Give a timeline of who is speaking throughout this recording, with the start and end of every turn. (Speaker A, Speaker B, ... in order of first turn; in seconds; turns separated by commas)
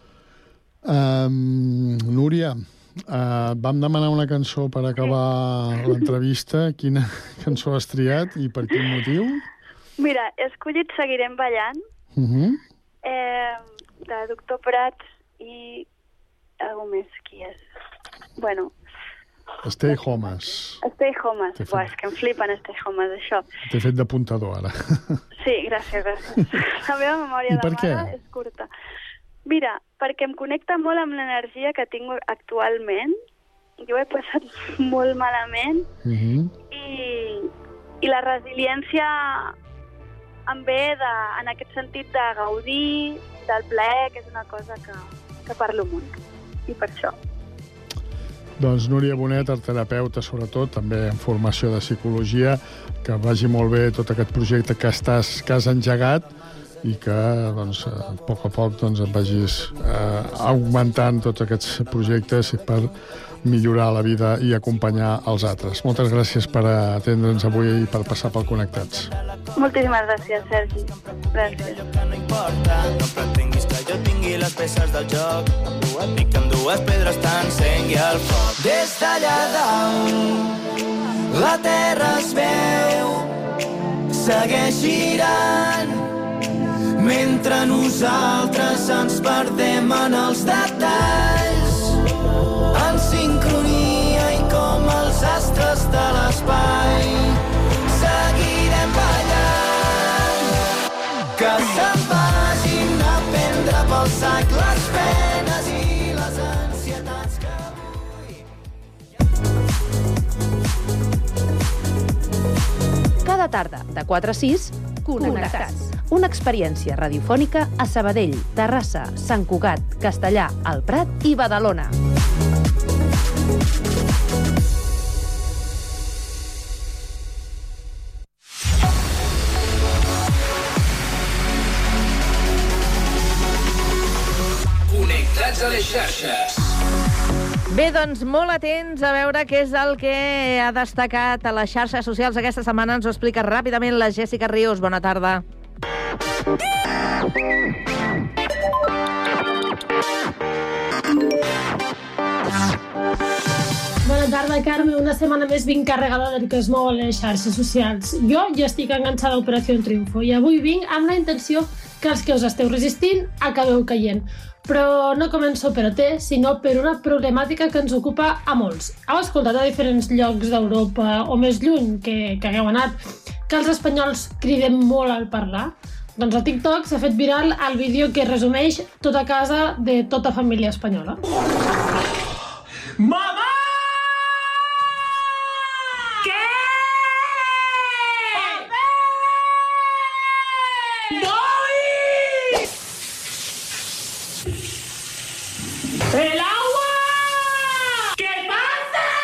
Speaker A: 0.8-9.4, Speaker B: 10.0-11.8, Speaker A: 12.1-12.6, Speaker B: 13.1-15.9, Speaker B: 16.6-17.6, Speaker B: 18.4-18.7, Speaker A: 19.6-20.8, Speaker B: 20.8-23.5, Speaker A: 21.6-21.9, Speaker A: 23.7-25.2, Speaker B: 25.4-28.7, Speaker A: 27.5-28.1, Speaker B: 29.5-33.1, Speaker B: 33.8-35.9, Speaker A: 36.0-36.5, Speaker B: 36.7-37.5, Speaker B: 38.0-39.5, Speaker B: 40.5-46.2, Speaker B: 46.7-47.1, Speaker A: 48.6-56.3, Speaker A: 56.8-62.9, Speaker A: 63.4-69.1, Speaker B: 69.6-71.8, Speaker C: 72.1-80.5, Speaker C: 81.3-83.3, Speaker C: 84.1-86.0, Speaker C: 87.0-92.0, Speaker C: 92.7-100.4, Speaker C: 101.3-107.6, Speaker D: 113.2-121.9, Speaker E: 137.7-145.4, Speaker F: 154.1-181.2